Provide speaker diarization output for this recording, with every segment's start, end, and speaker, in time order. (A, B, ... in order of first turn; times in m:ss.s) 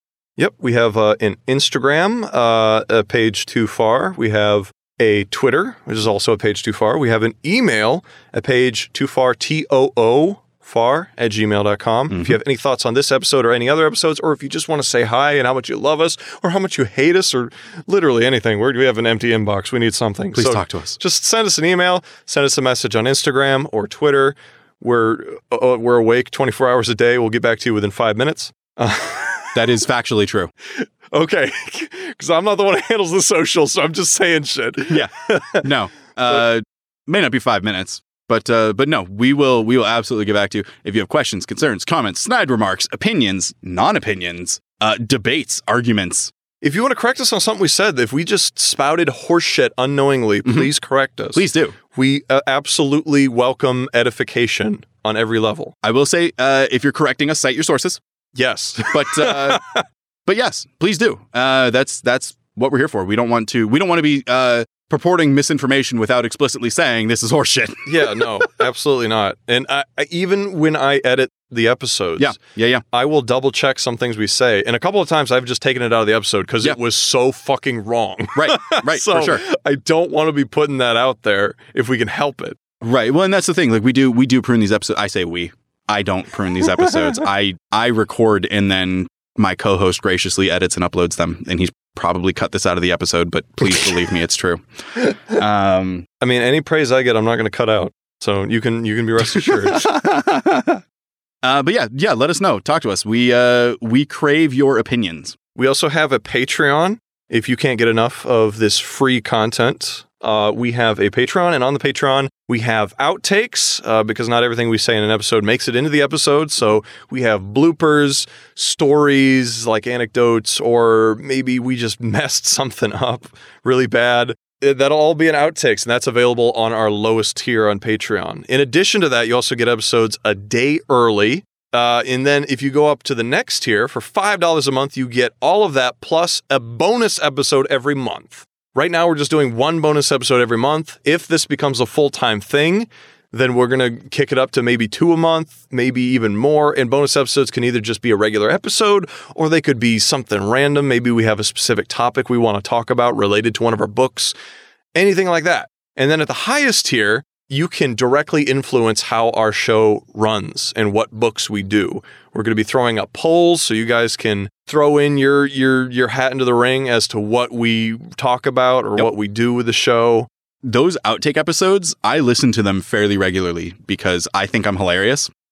0:00.4-0:29.6 A
0:12.1-0:12.4 B
0:20.3-0:21.0 B
0:29.5-0:30.5 B
0:30.8-0:35.6 A
0:34.9-0:46.3 B
0:46.6-0:55.7 A
0:50.4-0:50.7 B
0:51.3-0:51.7 B
0:55.8-0:58.0 B
0:58.3-0:59.8 A
0:58.8-0:59.6 B
1:00.2-1:08.3 B
1:07.8-1:12.4 A
1:12.2-1:12.8 B
1:12.9-1:22.6 A
1:18.3-1:19.4 B
1:22.8-1:36.0 B
1:26.6-1:27.2 A
1:36.2-1:39.9 A
1:39.3-1:40.8 B
1:41.4-1:45.4 B
1:45.6-2:34.3 A
2:34.9-2:50.3 A
2:50.6-2:55.3 B